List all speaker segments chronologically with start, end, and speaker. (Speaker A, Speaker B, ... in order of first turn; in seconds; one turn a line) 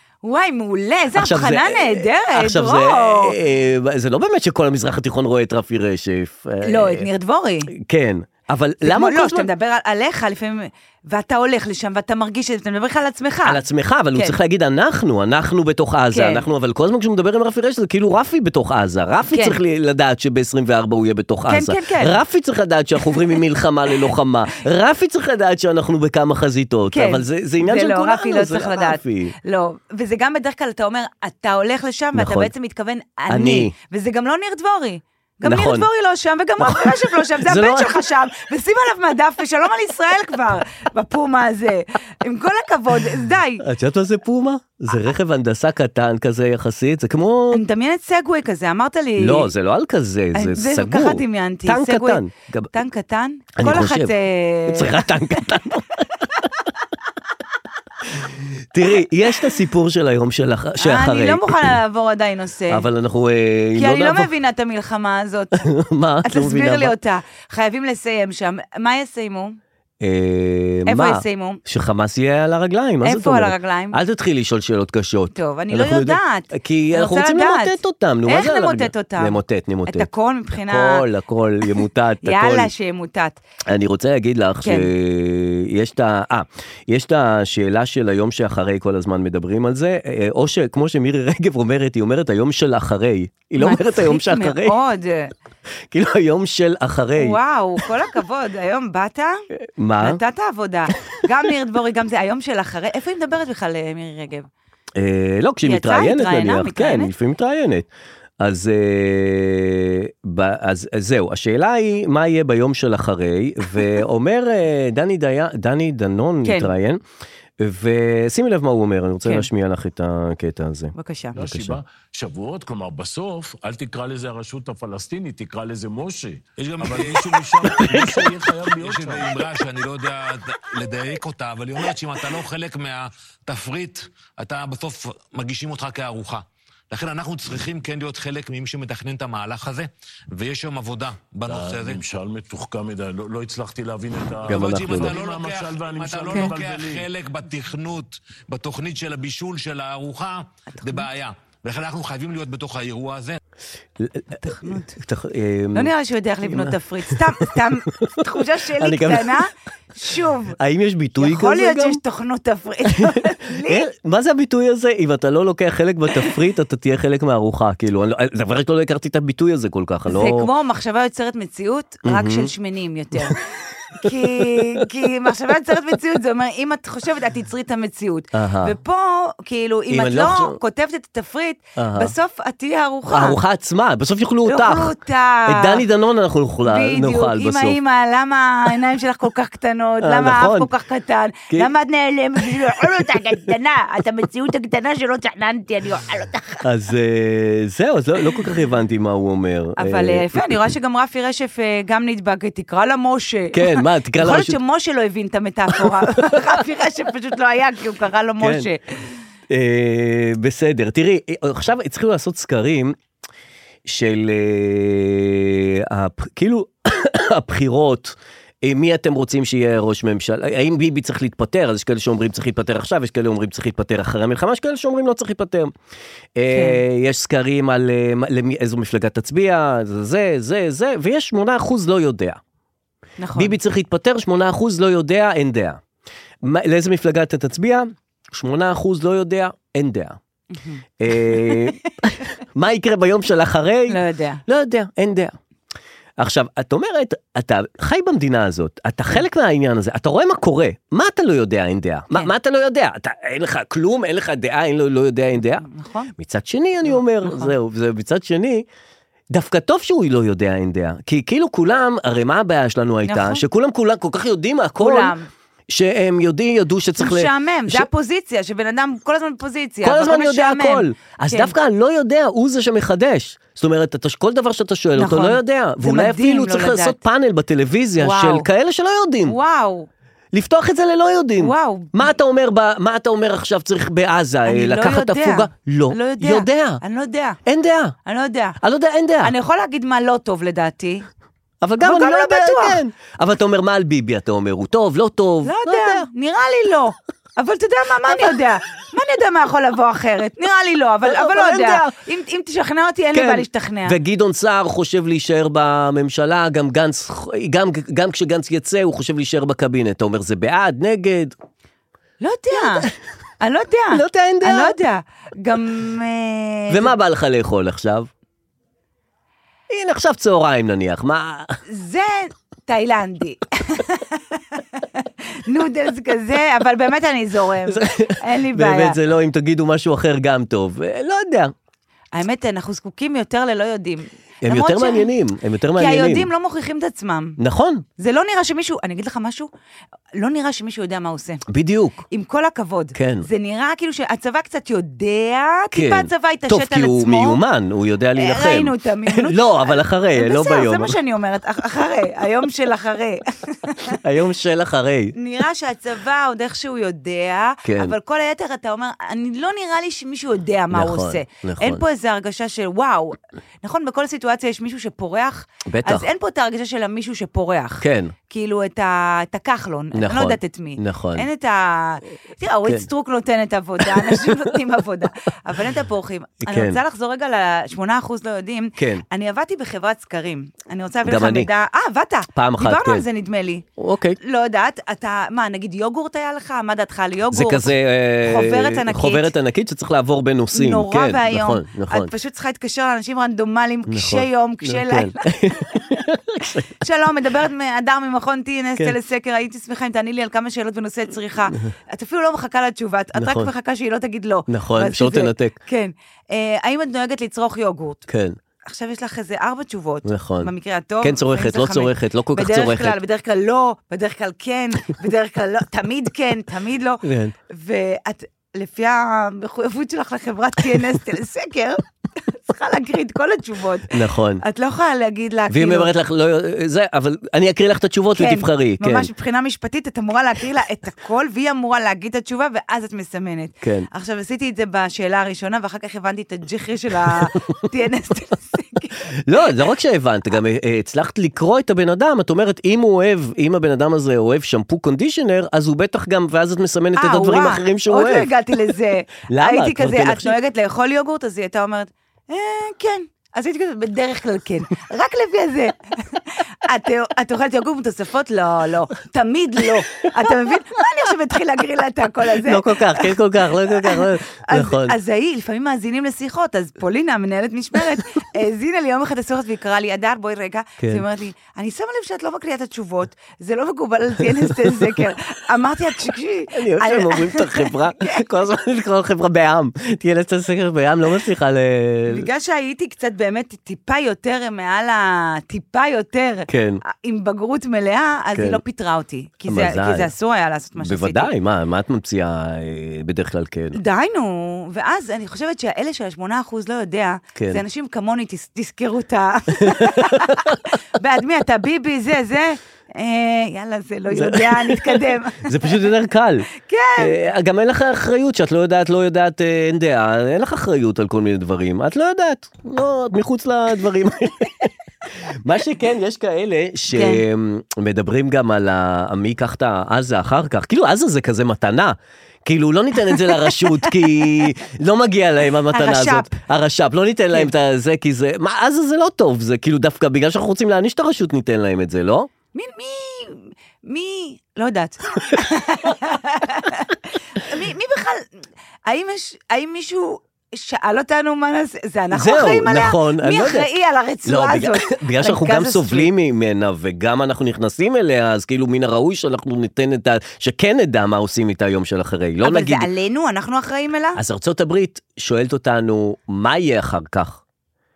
Speaker A: 0.2-3.3
Speaker B: 1.1-7.1
Speaker A: 6.6-7.7
Speaker B: 7.7-9.5
Speaker A: 8.8-13.6
Speaker B: 13.4-29.4
Speaker A: 16.1-16.4
Speaker A: 19.3-19.6
Speaker A: 21.5-22.2
Speaker A: 26.9-43.6
Speaker B: 32.1-32.5
Speaker B: 33.3-33.7
Speaker B: 35.4-35.9
Speaker B: 36.6-38.1
Speaker B: 43.6-47.6
Speaker A: 47.5-49.5
Speaker B: 49.2-52.7
Speaker A: 50.3-55.0
Speaker B: 53.5-54.1
Speaker B: 54.7-56.0
Speaker B: 58.1-61.8
Speaker A: 60.8-62.9
Speaker B: 62.7-64.3
Speaker A: 63.8-65.7
Speaker B: 65.6-66.9
Speaker A: 66.2-69.6
Speaker B: 70.0-80.1
Speaker A: 70.8-71.6
Speaker A: 73.0-74.0
Speaker A: 75.3-81.0
Speaker B: 80.6-82.7
Speaker A: 82.2-83.4
Speaker B: 83.7-94.8
Speaker A: 84.6-84.9
Speaker A: 93.6-95.3
Speaker B: 95.9-97.4
Speaker A: 97.2-99.4
Speaker B: 99.5-100.2
Speaker A: 100.0-104.5
Speaker B: 105.0-107.9
Speaker A: 105.6-107.1
Speaker B: 108.4-117.0
Speaker A: 116.4-116.7
Speaker B: 117.6-121.8
Speaker A: 121.0-121.3
Speaker C: 121.3-129.5
Speaker D: 126.6-128.2
Speaker D: 128.8-142.0
Speaker C: 141.5-147.1
Speaker B: 144.5-145.2
Speaker D: 144.5-153.4
Speaker A: 150.8-151.1
Speaker B: 154.0-155.9
Speaker A: 154.3-155.0
Speaker A: 155.7-160.6
Speaker B: 156.4-159.4
Speaker B: 160.6-162.0
Speaker A: 161.2-163.8
Speaker B: 162.8-170.5
Speaker A: 170.1-173.4
Speaker B: 172.0-172.5
Speaker A: 173.9-183.4
Speaker B: 174.0-174.6
Speaker B: 178.3-178.7
Speaker B: 179.9-180.6
Speaker B: 181.8-182.1
Speaker B: 183.1-184.9
Speaker A: 184.4-185.8
Speaker B: 185.5-187.8
Speaker A: 186.7-196.6
Speaker B: 190.0-190.7
Speaker B: 196.6-200.6
Speaker A: 199.8-208.8
Speaker B: 203.5-204.6
Speaker B: 205.7-206.5
Speaker B: 208.4-208.7
Speaker B: 209.5-212.9
Speaker B: 213.8-225.7
Speaker B: 226.3-232.4
Speaker A: 226.5-226.8
Speaker A: 233.2-233.6
Speaker B: 233.3-235.8
Speaker B: 236.4-240.2
Speaker A: 240.5-241.8
Speaker B: 241.0-245.4
Speaker A: 243.9-244.4
Speaker B: 246.2-255.7
Speaker A: 255.6-256.1
Speaker B: 256.2-258.7
Speaker A: 256.8-257.5
Speaker B: 259.3-265.1
Speaker A: 263.0-263.4
Speaker A: 264.8-265.3
Speaker B: 265.7-267.9
Speaker A: 267.0-271.5
Speaker B: 269.8-279.4
Speaker A: 274.9-277.0
Speaker A: 278.0-278.5
Speaker A: 279.2-279.9
Speaker B: 280.3-286.8
Speaker A: 281.4-282.1
Speaker A: 284.4-287.4
Speaker B: 287.4-287.9
Speaker A: 288.1-288.6
Speaker B: 288.6-289.3
Speaker A: 289.2-291.1
Speaker B: 291.6-296.1
Speaker A: 291.8-292.8
Speaker A: 295.4-303.9
Speaker B: 298.1-298.3
Speaker B: 301.0-301.9
Speaker B: 303.1-311.3
Speaker A: 312.2-312.9
Speaker B: 312.5-312.9
Speaker A: 313.4-316.9
Speaker B: 313.9-314.8
Speaker B: 316.7-318.1
Speaker B: 319.7-321.6
Speaker A: 321.7-329.0
Speaker B: 327.6-331.5
Speaker A: 332.1-335.1
Speaker B: 334.4-336.3
Speaker A: 335.8-337.4
Speaker B: 337.4-337.8
Speaker A: 338.0-339.5
Speaker A: 340.1-341.4
Speaker B: 341.5-342.0
Speaker A: 342.1-347.4
Speaker B: 342.9-343.3
Speaker B: 345.7-351.0
Speaker A: 348.1-353.9
Speaker B: 353.9-355.1
Speaker A: 355.1-383.6
Speaker B: 357.6-357.9
Speaker B: 360.7-361.8
Speaker B: 365.7-366.1
Speaker B: 367.8-368.1
Speaker B: 369.9-371.3
Speaker B: 373.8-374.4
Speaker B: 376.4-376.8
Speaker B: 378.8-379.0
Speaker B: 381.0-381.5
Speaker B: 382.3-383.1
Speaker B: 383.8-384.2
Speaker A: 384.2-389.3
Speaker B: 387.3-392.1
Speaker A: 390.5-395.3
Speaker B: 393.9-396.7
Speaker A: 396.8-408.0
Speaker B: 403.1-403.5
Speaker B: 404.5-405.6
Speaker B: 408.1-408.4
Speaker A: 408.6-425.9
Speaker B: 410.0-413.0
Speaker B: 417.0-417.3
Speaker B: 423.9-424.4
Speaker B: 425.5-429.1
Speaker A: 428.1-439.5
Speaker B: 433.6-433.9
Speaker B: 439.2-448.3
Speaker A: 446.9-478.2
Speaker B: 449.3-450.4
Speaker B: 462.3-464.9
Speaker B: 470.8-471.0
Speaker B: 476.5-482.3
Speaker A: 482.1-491.3
Speaker B: 486.5-486.8
Speaker B: 488.3-488.6
Speaker B: 489.4-490.1
Speaker B: 490.8-493.8
Speaker A: 493.7-505.8
Speaker B: 497.3-497.6
Speaker B: 499.6-500.6
Speaker B: 504.1-514.7
Speaker A: 506.6-507.2
Speaker B: 515.3-532.3
Speaker A: 516.9-517.2
Speaker A: 525.7-526.4
Speaker A: 532.5-538.2
Speaker A: 538.9-546.1
Speaker B: 542.1-543.7
Speaker B: 544.2-552.9
Speaker A: 552.4-554.2
Speaker B: 554.1-557.4